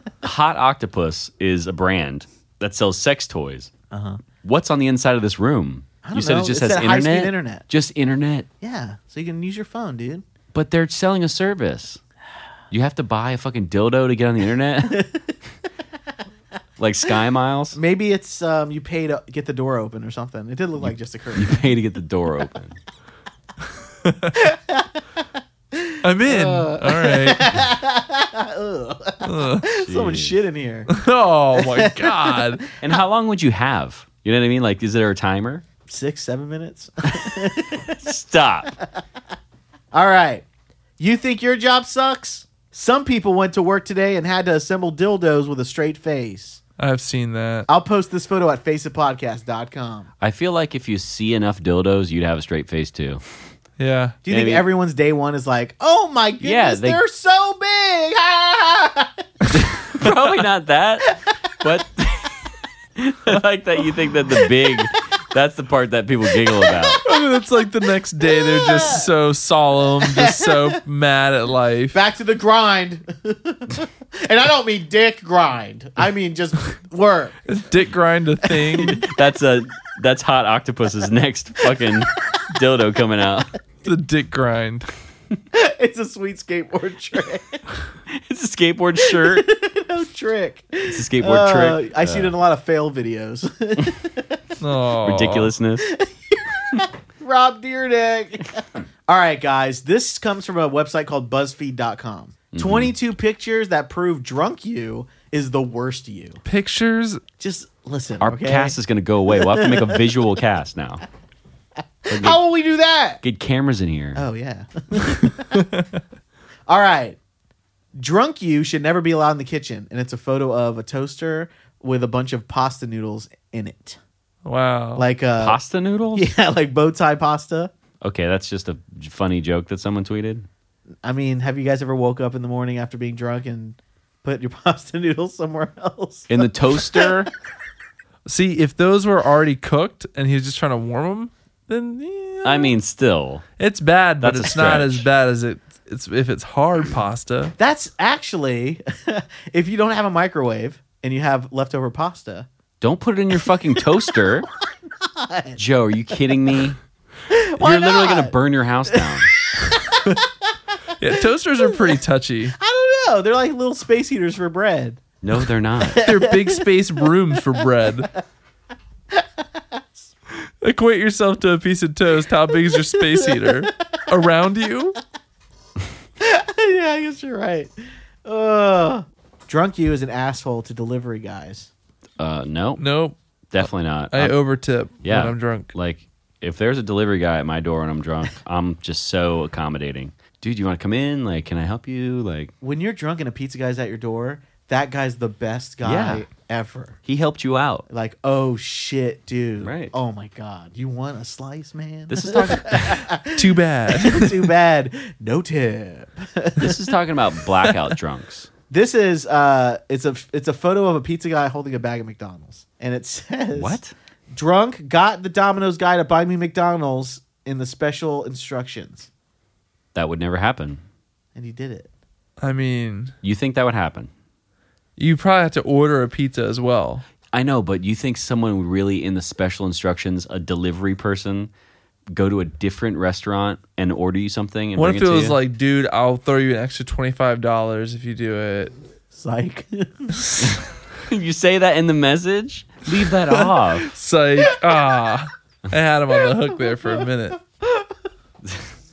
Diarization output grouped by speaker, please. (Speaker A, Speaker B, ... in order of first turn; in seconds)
Speaker A: 0.2-3.7, 4.4-8.5, 10.5-12.0, 12.7-15.0, 16.8-17.8, 20.8-22.8, 29.8-30.4, 32.8-35.6, 38.0-38.7, 50.2-53.2, 54.3-54.6, 56.4-57.0, 59.5-67.0, 78.9-83.5, 88.2-89.4, 90.9-92.3, 95.0-95.8, 102.5-102.9, 108.2-111.0, 112.1-112.4, 113.2-114.2, 125.4-126.3, 128.0-130.5, 136.3-137.3, 142.4-143.4, 144.2-145.1, 152.8-154.5, 155.6-156.8, 157.6-159.3, 165.2-166.0, 182.2-182.8, 183.5-184.3, 185.0-192.5, 195.8-196.2, 197.0-197.8, 199.6-199.9, 202.1-203.0, 206.6-208.5, 213.5-213.9, 219.9-220.8, 223.2-224.1, 227.3-231.5, 232.1-235.4, 240.4-243.9
Speaker B: 3.9-4.2, 6.0-7.6, 8.6-10.2, 14.9-15.3, 17.7-21.7, 24.4-25.0, 25.8-30.9, 31.6-32.5, 35.9-38.0, 39.9-40.4, 41.0-46.6, 47.7-50.1, 54.2-59.1, 66.6-67.0, 68.2-69.0, 70.1-70.8, 71.9-77.3, 85.5-87.6, 89.0-94.4, 95.9-106.4, 107.4-108.8, 109.4-110.1, 112.0-113.2, 114.1-115.6, 116.7-117.2, 118.0-124.0, 125.0-125.6, 126.1-127.7, 131.0-137.1, 147.6-152.5, 155.2-155.6, 157.3-158.3, 158.9-160.2, 161.7-161.9, 162.6-165.0, 165.8-166.6, 176.2-177.7, 178.2-181.7, 192.6-196.9, 197.9-203.4, 204.0-206.8, 208.7-213.8, 214.3-219.1, 221.3-221.9, 239.1-240.2, 246.7-247.1, 247.6-247.9
Speaker C: 24.0-24.3, 26.0-27.5, 29.2-29.7, 30.9-32.6, 46.8-47.7, 53.8-54.2, 67.0-72.0, 77.5-79.0, 83.8-84.9, 94.6-95.5, 106.5-107.2, 115.5-116.0, 124.4-125.1, 138.2-142.8, 143.6-147.5, 161.0-162.5, 166.0-168.1, 170.6-175.0, 182.8-185.7, 202.9-204.5, 222.4-223.1, 225.0-227.0, 234.8-238.7, 243.3-247.4